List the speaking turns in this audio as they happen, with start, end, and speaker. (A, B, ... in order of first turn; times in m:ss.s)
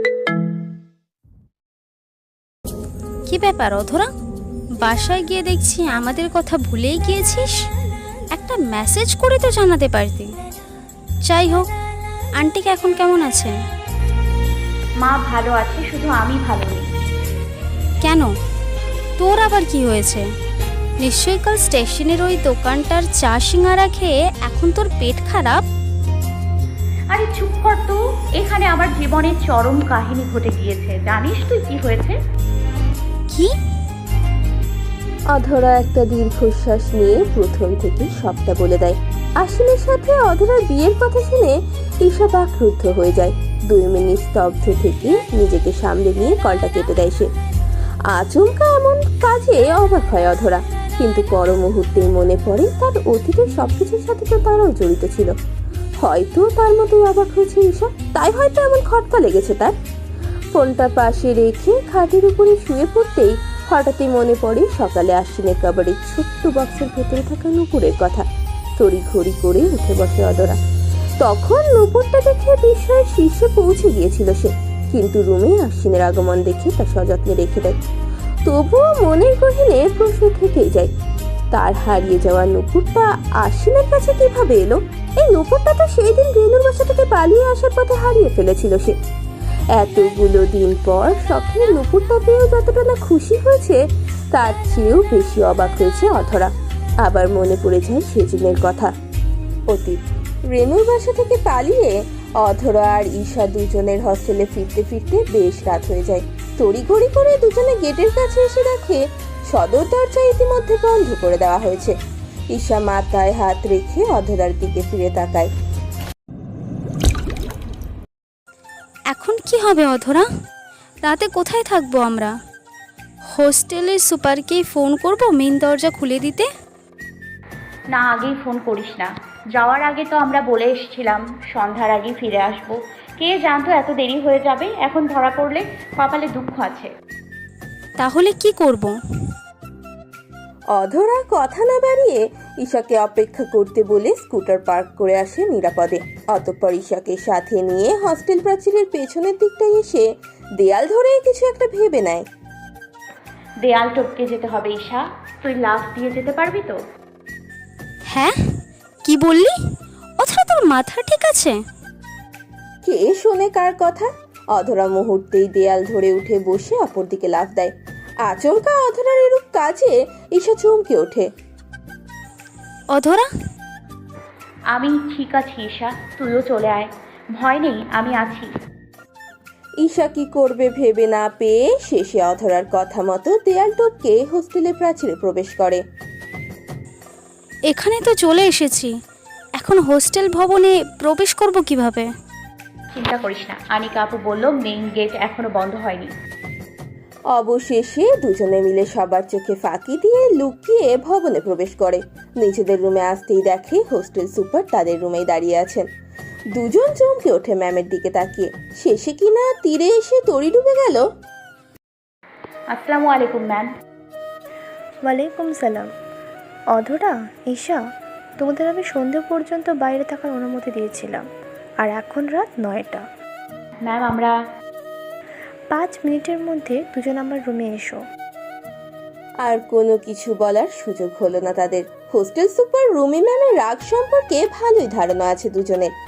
0:03.3-0:04.1 A
0:04.8-0:07.5 A
0:08.3-0:10.3 A
0:11.3-0:11.7 A
0:12.4-0:13.5 A
0:15.0-0:16.8 B
0:18.0-0:18.3 A
0:19.2-0:20.2 A
0:21.0-0:25.6 A
0:27.1-0:32.2 B
0:35.3-0:47.3 C
0:48.1-0:55.3 C
0:56.0-0:59.7 C
1:00.5-1:08.2 C
1:08.8-1:10.6 C
1:11.2-1:17.8 C
1:18.4-1:20.9 C
1:21.5-1:28.9 C
1:29.7-1:33.8 C
1:34.3-1:36.5 C
1:37.0-1:38.9 C
1:39.7-1:52.0 C
1:52.5-1:55.5 C
1:59.1-2:00.2 A
2:01.0-2:02.3 A
2:03.3-2:06.5 A
2:07.9-2:16.9 B
2:18.0-2:19.0 A
2:20.8-2:30.0 C
2:30.6-2:32.2 C
2:33.6-2:36.8 B
2:38.1-2:38.3 A
2:39.0-2:39.5 A
2:40.2-2:41.6 A
2:42.8-2:47.7 C
2:48.2-2:51.3 C
2:52.9-2:53.3 A
2:54.7-2:58.5 B
2:59.8-3:05.8 C
3:07.7-3:08.9 A
3:09.6-3:12.1 A
3:12.9-3:16.1 B
3:17.3-3:25.8 C
3:26.5-3:31.0 C
3:32.7-3:33.7 B
3:35.0-3:35.9 D
3:36.7-3:37.8 D
3:38.4-3:41.2 D
3:41.8-3:43.0 D
3:43.8-3:44.3 B
3:45.7-3:48.0 D
3:49.4-3:55.9 C